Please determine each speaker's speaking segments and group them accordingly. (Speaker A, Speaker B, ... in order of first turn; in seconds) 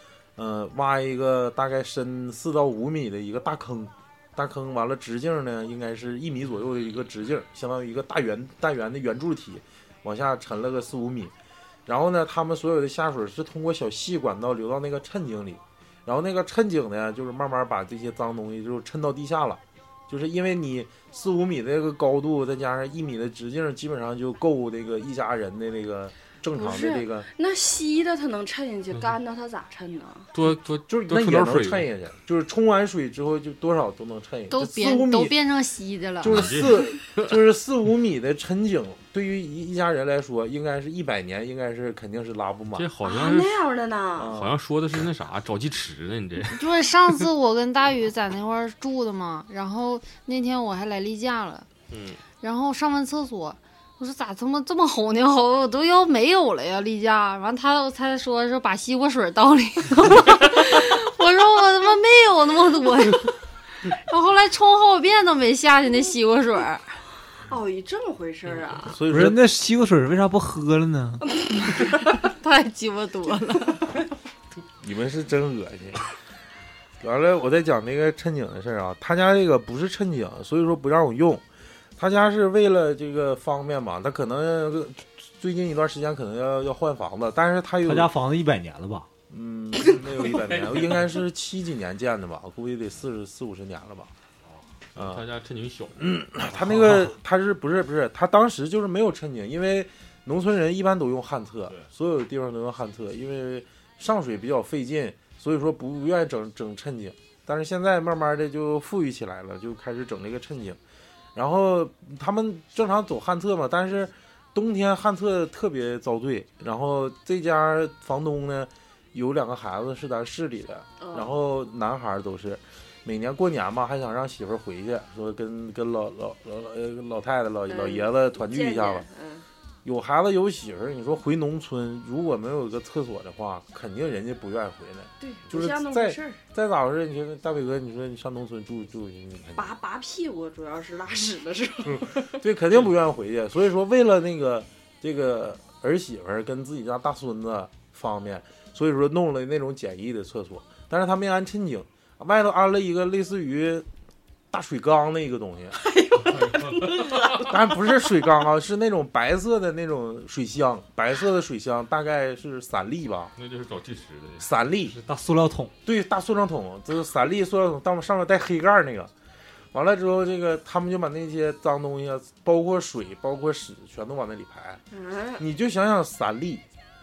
Speaker A: 0.4-11.3, 11.8-27.3, 30.9-35.4, 36.2-42.9, 44.2-44.5, 68.9-69.4, 74.8-76.0, 77.0-81.4, 82.0-88.1, 89.3-94.1, 95.0-95.2, 96.0-110.8, 111.3-129.1, 129.8-139.7, 141.8-153.8, 154.5-155.8, 157.3-163.3, 164.4-164.9, 165.8-169.1, 169.7-174.8, 175.4-176.6
Speaker B: 26.5-30.3, 43.0-44.3, 67.5-68.9, 121.0-121.3, 127.7-129.4, 135.2-136.4, 139.6-142.4, 155.8-157.5, 174.9-175.4
Speaker C: 30.3-31.9, 36.2-37.3, 42.7-43.6, 44.2-46.7, 51.9-52.2, 90.5-90.9, 94.5-96.1, 156.2-157.4, 163.4-164.5
Speaker D: 34.5-36.8, 46.5-51.7, 52.4-66.9, 71.7-73.9
Speaker E: 69.1-71.4, 87.8-89.1, 164.9-165.7